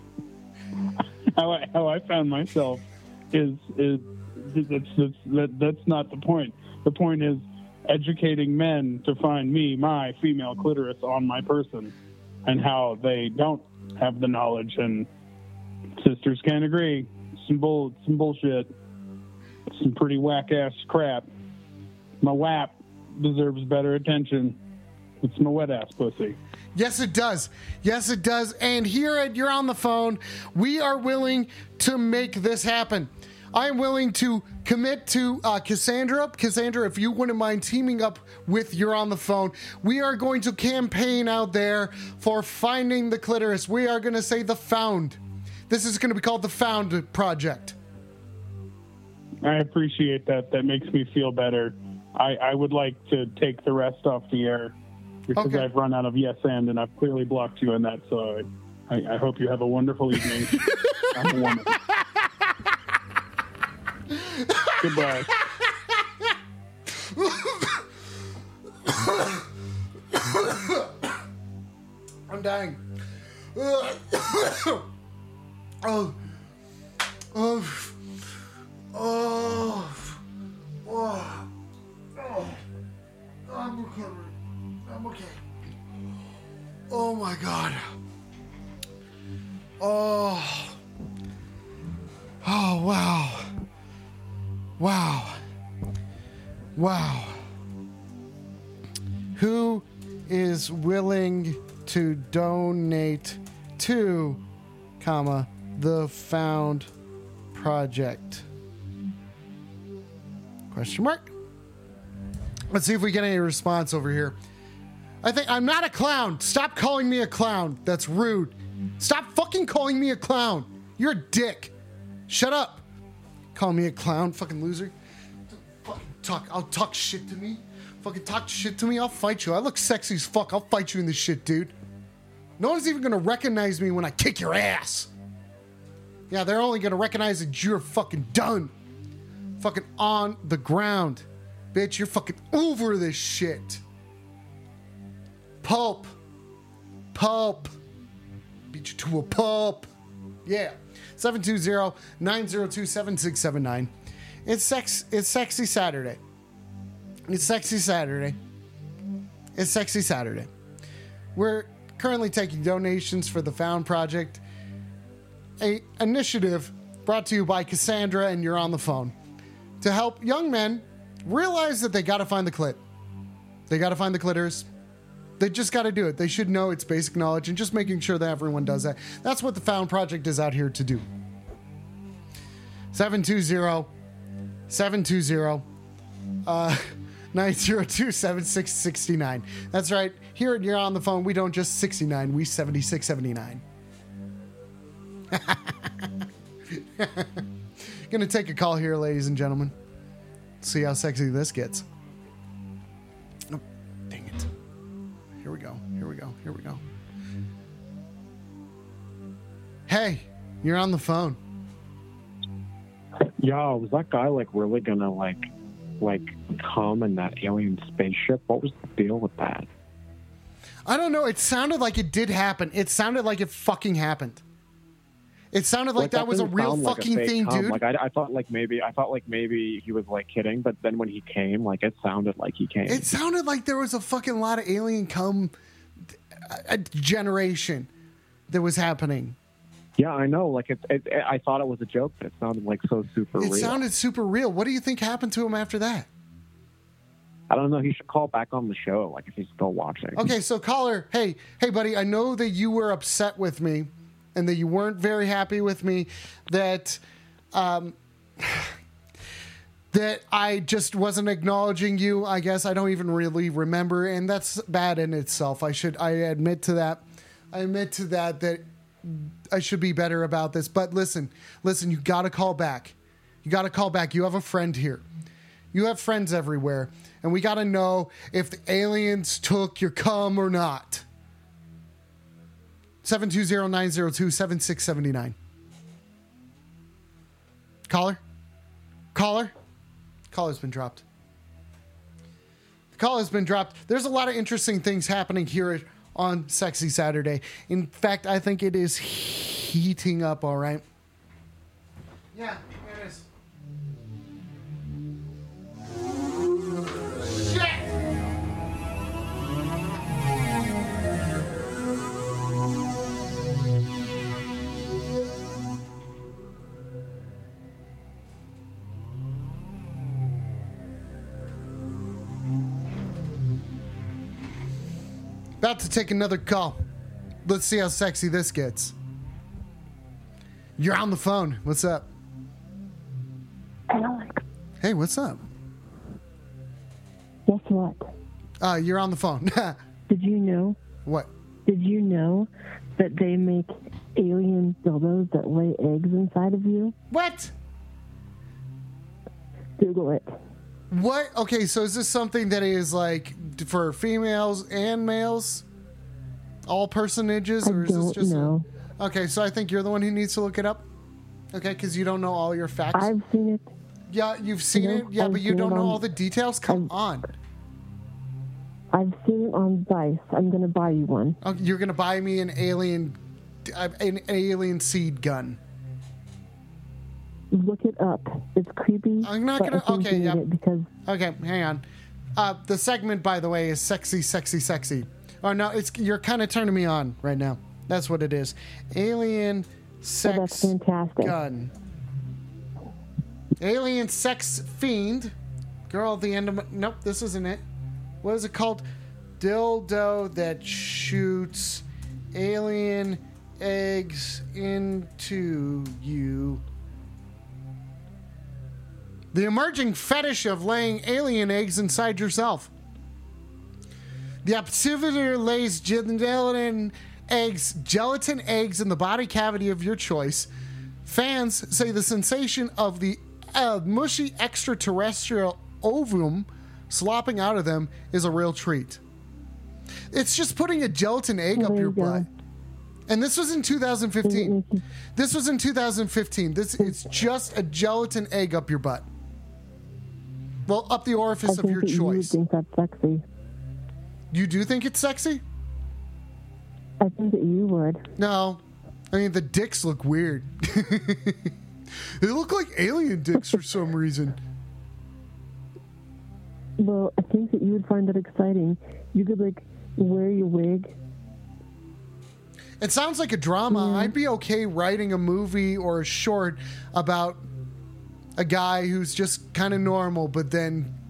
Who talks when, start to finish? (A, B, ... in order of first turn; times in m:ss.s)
0:01.3-0:11.9 A
0:12.5-0:15.1 A
0:16.0-0:18.7 A
0:19.7-0:21.3 A
0:22.2-0:24.6 A
0:25.2-0:26.4 A
0:26.8-0:47.8 B
0:49.4-0:54.8 A
0:55.3-1:01.8 A
0:55.4-0:55.7 B
1:01.9-1:02.4 B
1:04.1-1:06.3 B
1:04.8-1:05.3 A
1:06.9-1:07.9 B
1:08.8-1:09.5 B
1:10.1-1:11.1 B
1:12.3-1:12.8 B
1:13.5-1:14.9 B
1:15.8-1:16.2 B
1:17.3-1:18.0 B
1:18.9-1:20.2 B
1:20.8-1:21.5 B
1:22.2-1:22.6 B
1:23.5-1:24.4 B
1:24.9-1:25.4 B
1:26.9-1:27.9 B
1:29.8-1:30.8 B
1:32.4-1:33.5 B
1:34.8-1:35.4 B
1:36.8-1:37.4 B
1:39.4-1:44.4 B
1:45.0-1:46.9 B
1:47.5-1:48.5 B
1:50.7-1:51.3 B
1:52.7-1:54.4 B
1:55.2-2:01.7 B
2:02.3-2:02.8 B
2:03.5-2:04.9 B
2:05.5-2:11.7 B
2:12.6-2:15.1 B
2:16.3-2:18.7 B
2:19.6-2:23.8 B
2:25.6-2:26.1 B
2:27.1-2:27.7 B
2:28.7-2:29.9 B
2:30.4-2:33.9 B
2:34.4-2:36.2 B
2:37.3-2:38.4 B
2:39.6-2:40.5 B
2:41.3-2:44.4 B
2:45.6-2:49.2 B
2:49.8-2:52.8 B
2:53.7-2:54.7 B
2:55.4-3:01.0 B
3:02.9-3:03.9 B
3:04.7-3:05.6 B
3:06.4-3:13.6 B
3:15.3-3:16.1 B
3:16.7-3:17.4 B
3:18.1-3:19.8 B
3:20.6-3:21.9 B
3:23.5-3:24.5 B
3:25.4-3:26.8 B
3:29.9-3:31.4 B
3:33.4-3:35.5 C
3:36.0-3:39.7 C
3:40.9-3:44.4 B
3:45.5-3:47.8 B
3:46.0-3:53.1 C
3:52.9-3:55.5 B
3:56.4-3:57.9 B
3:58.5-3:59.4 B
4:00.0-4:03.8 C
4:03.4-4:06.1 B
4:07.5-4:10.3 C
4:10.2-4:17.0 B
4:17.5-4:18.8 B
4:19.9-4:35.0 B
4:35.7-4:41.0 B
4:43.0-4:45.4 B
4:47.9-4:48.2 B
4:49.1-4:49.6 B
4:50.3-4:51.0 B
4:52.9-5:00.8 B
5:02.3-5:03.3 B
5:07.0-5:08.0 B
5:25.6-5:26.8 B
5:27.4-5:29.0 B
5:30.8-5:32.1 B
5:33.9-5:34.4 D
5:34.8-5:35.4 B
5:37.5-5:38.1 D
5:38.6-5:39.8 B
5:40.1-5:40.8 D
5:41.7-5:47.0 D
5:47.1-5:47.5 B
5:49.8-5:50.4 D
5:50.9-5:55.6 B
5:56.7-6:00.8 B
5:57.6-5:58.6 D
6:01.5-6:03.2 B
6:02.9-6:03.7 D
6:04.1-6:07.3 B
6:04.7-6:06.0 D
6:06.7-6:06.9 D
6:08.9-6:11.4 D
6:11.4-6:15.6 B
6:17.5-6:20.9 D
6:19.2-6:20.4 B
6:21.1-6:21.8 B
6:22.4-6:31.7 B
6:30.2-6:31.4 D
6:33.6-6:35.4 B
6:35.9-6:37.6 B
6:38.2-6:38.9 B
6:39.4-6:46.6 B
6:49.3-6:52.7 B
6:54.4-7:00.5 B
7:01.0-7:09.0 B
7:10.1-7:12.3 B
7:11.5-7:12.3 D
7:13.1-7:14.6 B
7:14.2-7:14.8 D
7:15.2-7:19.1 B
7:16.8-7:17.1 D
7:20.7-7:22.4 B
7:21.5-7:23.2 D
7:24.3-7:25.4 B
7:27.0-7:28.0 D
7:28.2-7:28.6 B
7:29.1-7:31.5 B
7:32.2-7:34.4 B
7:36.8-7:41.0 D
7:42.8-7:47.4 B
7:43.7-7:44.1 D
7:48.4-7:50.9 B